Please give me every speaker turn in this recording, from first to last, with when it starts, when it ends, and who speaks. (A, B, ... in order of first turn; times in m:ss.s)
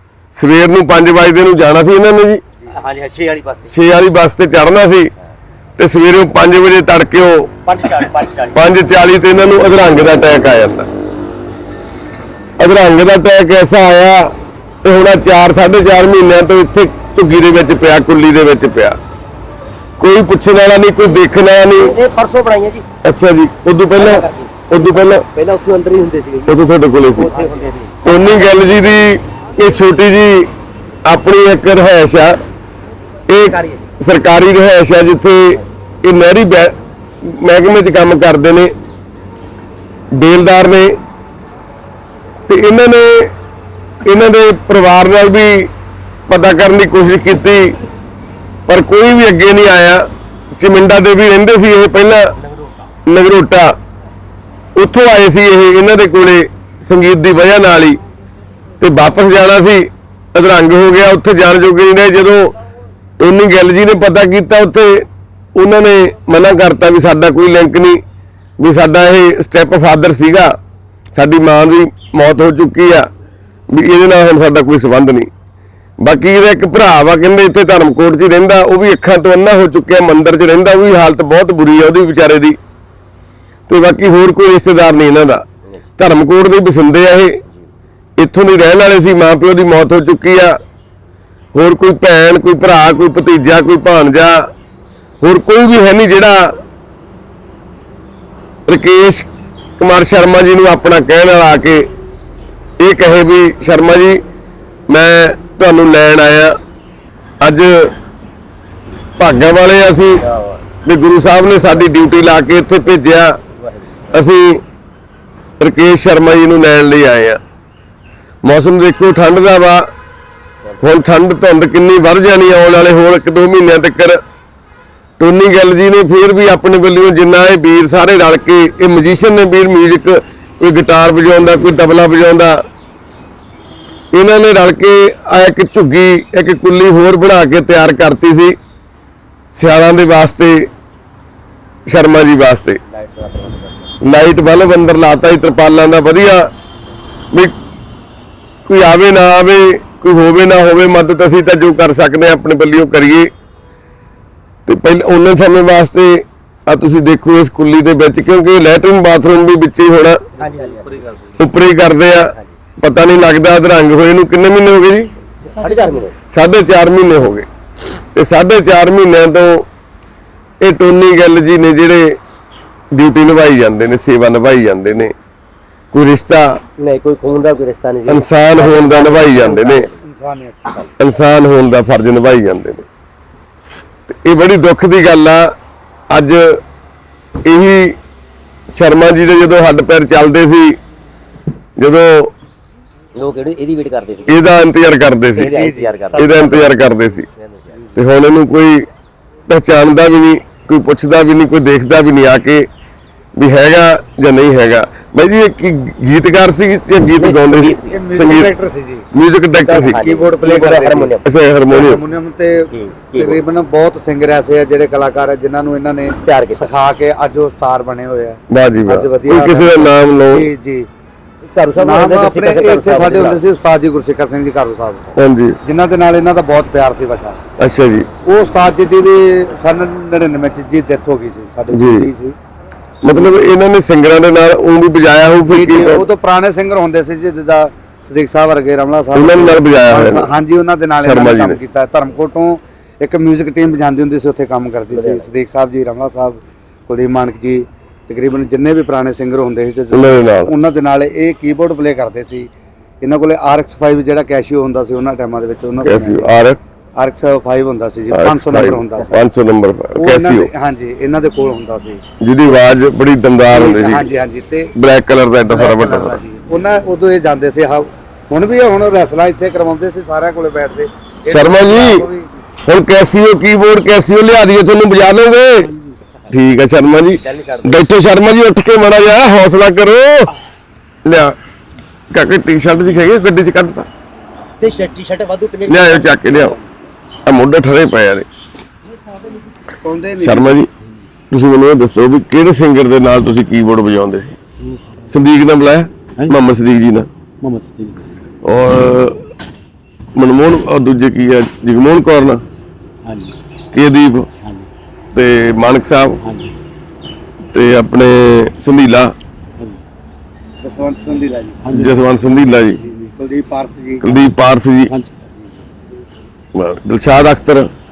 0:00.3-0:02.4 A
0:02.6-0:03.7 B
0:03.7-0:05.1 A
0:05.8-0:07.5 A
0:07.6-0:08.6 B
0:08.5-0:10.9 A
0:12.6-0:19.0 A
0:20.0-0:22.0 A
0:21.8-0:22.8 B
0:23.0-0:25.2 A
0:23.9-0:28.0 B
0:26.4-0:27.3 A
0:28.0-0:30.5 A
0:31.1-0:32.4 A
0:33.3-0:38.7 A
0:33.3-0:33.8 B
0:40.1-0:41.0 A
0:42.5-0:43.3 A
0:44.0-0:45.7 A
0:46.3-0:47.8 A
0:48.7-0:52.3 A
0:52.4-0:52.8 B
0:53.1-0:53.8 A
0:54.8-0:58.0 A
0:58.8-1:02.6 A
1:03.2-1:08.0 A
1:08.6-1:10.6 A
1:11.1-1:13.1 A
1:13.7-1:15.3 A
1:16.0-1:22.6 A
1:23.7-1:25.4 A
1:26.0-1:27.4 A
1:28.2-1:30.6 A
1:31.5-1:34.5 A
1:35.2-1:36.6 A
1:38.7-1:39.3 A
1:39.8-1:41.9 A
1:42.8-1:44.2 A
1:44.9-1:46.6 A
1:47.4-1:47.9 A
1:49.2-1:50.2 A
1:50.2-1:50.6 B
1:50.8-1:53.4 A
1:53.6-1:54.1 B
1:54.1-1:54.6 A
1:55.6-1:57.4 A
1:58.4-1:59.9 A
2:00.8-2:04.2 A
2:05.2-2:12.6 A
2:14.1-2:18.6 A
2:19.5-2:20.7 A
2:21.9-2:22.8 A
2:22.9-2:24.0 B
2:24.0-2:26.5 A
2:28.6-2:33.3 A
2:34.6-2:40.2 A
2:40.4-2:41.2 B
2:41.4-2:45.1 A
2:45.4-2:46.2 B
2:46.3-2:47.5 A
2:48.1-2:49.6 A
2:50.6-2:52.1 A
2:52.9-2:55.1 A
2:55.9-2:56.6 A
2:56.8-3:00.0 B
2:58.1-2:59.8 A
3:00.0-3:00.7 C
3:01.0-3:02.9 A
3:04.1-3:05.5 A
3:06.1-3:06.6 A
3:07.4-3:08.0 A
3:08.7-3:10.8 A
3:11.8-3:12.3 A
3:13.1-3:14.4 B
3:14.3-3:17.3 A
3:15.3-3:16.8 B
3:15.5-3:16.4 C
3:17.4-3:17.8 B
3:17.9-3:18.8 A
3:19.5-3:22.7 A
3:23.3-3:28.5 A
3:27.2-3:28.4 B
3:27.9-3:29.1 C
3:29.1-3:32.0 A
3:29.5-3:31.2 B
3:29.7-3:31.2 C
3:31.7-3:32.6 C
3:32.7-3:33.4 B
3:33.1-3:40.9 C
3:36.2-3:36.8 B
3:38.5-3:40.5 A
3:41.5-3:43.4 B
3:41.8-3:45.1 C
3:45.2-3:45.6 A
3:45.6-3:47.4 C
3:47.6-3:48.1 A
3:48.2-3:52.4 C
3:51.7-3:52.1 A
3:53.0-3:56.0 A
3:55.5-4:12.5 C
3:59.1-4:00.3 A
4:01.0-4:01.6 A
4:04.9-4:05.3 B
4:09.9-4:10.5 A
4:13.0-4:16.3 C
4:15.8-4:16.6 A
4:17.0-4:19.2 C
4:18.1-4:20.5 A
4:20.0-4:22.0 C
4:22.2-4:24.1 A
4:23.5-4:24.7 C
4:24.7-4:26.2 A
4:25.5-4:32.3 C
4:31.3-4:32.1 A
4:32.6-4:35.7 A
4:35.6-4:36.0 D
4:36.3-4:40.3 A
4:37.1-4:37.8 B
4:41.0-4:41.3 A
4:42.1-4:43.9 A
4:44.6-4:46.7 B
4:45.7-4:46.6 A
4:47.2-4:48.2 A
4:49.8-4:50.6 C
4:50.2-4:50.7 A
4:51.3-4:54.4 A
4:54.6-4:55.1 D
4:55.1-4:57.1 A
4:57.4-4:58.2 D
4:58.4-4:59.2 A
5:00.2-5:02.4 A
5:03.0-5:03.4 D
5:03.7-5:04.3 A
5:04.4-5:04.7 D
5:05.1-5:06.2 A
5:06.2-5:06.6 D
5:07.5-5:09.1 A
5:10.6-5:11.6 C
5:11.6-5:12.8 D
5:11.7-5:12.8 A
5:12.8-5:14.1 C
5:14.0-5:14.9 A
5:14.9-5:15.2 D
5:16.6-5:17.7 A